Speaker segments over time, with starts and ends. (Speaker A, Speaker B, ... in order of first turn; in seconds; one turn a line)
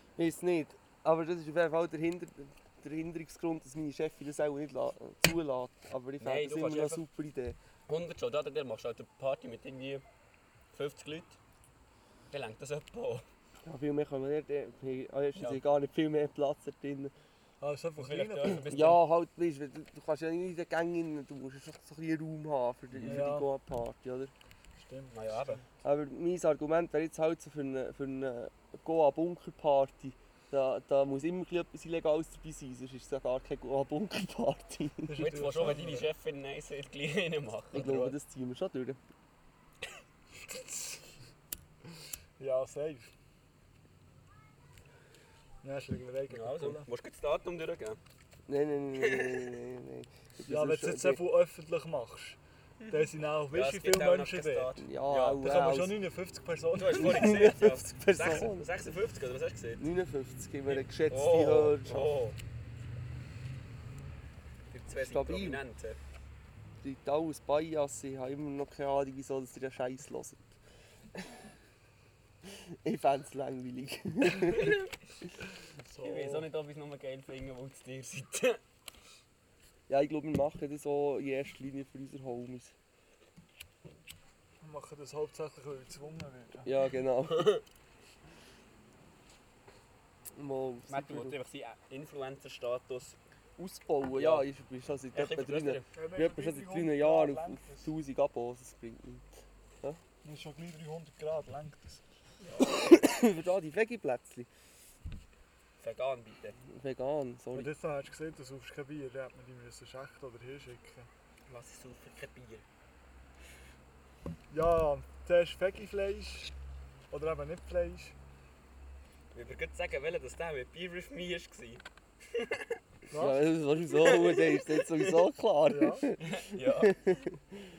Speaker A: 0.2-7.6
Speaker B: 6.2-7.0
Speaker B: 7.9-10.0
Speaker B: 10.7-11.4
Speaker B: 12.3-13.2
Speaker A: 13.7-17.1
Speaker B: 15.4-15.6
Speaker C: 17.6-18.8
Speaker B: 18.0-19.0
Speaker A: 18.7-24.3
Speaker B: 22.9-23.3
Speaker C: 23.1-23.5
Speaker C: 24.8-25.6
Speaker B: 25.1-25.6
Speaker A: 25.8-35.2
Speaker C: 35.1-36.1
Speaker B: 35.2-38.2
Speaker A: 37.7-39.0
Speaker C: 42.4-43.1
Speaker C: 45.6-46.9
Speaker B: 46.3-48.0
Speaker A: 48.5-51.2
Speaker B: 49.0-49.6
Speaker C: 50.5-54.8
Speaker B: 53.5-55.4
Speaker A: 54.8-56.0
Speaker C: 55.4-57.5
Speaker B: 56.8-59.8
Speaker A: 56.9-58.9
Speaker A: 59.8-62.1
Speaker B: 60.7-62.4
Speaker B: 64.7-66.0
Speaker A: 65.0-65.6
Speaker A: 66.8-70.6
Speaker A: 72.5-74.8
Speaker B: 74.3-74.9
Speaker C: 75.8-76.5
Speaker B: 76.0-78.6
Speaker A: 79.9-82.7
Speaker C: 84.6-86.7
Speaker A: 86.7-87.5
Speaker B: 87.3-87.6
Speaker A: 90.3-91.4
Speaker B: 90.9-93.2
Speaker A: 93.6-99.3
Speaker B: 94.1-94.5
Speaker B: 95.1-95.9
Speaker C: 95.9-97.9
Speaker C: 100.2-102.0
Speaker B: 102.4-103.1
Speaker A: 102.6-104.5
Speaker B: 105.8-106.6
Speaker A: 106.7-107.7
Speaker C: 107.5-111.1
Speaker B: 111.5-112.6
Speaker C: 114.5-116.5
Speaker C: 117.1-118.2
Speaker B: 119.3-122.7
Speaker C: 123.1-123.4
Speaker A: 123.1-127.4
Speaker B: 123.9-125.3
Speaker C: 125.7-126.0
Speaker B: 126.2-127.0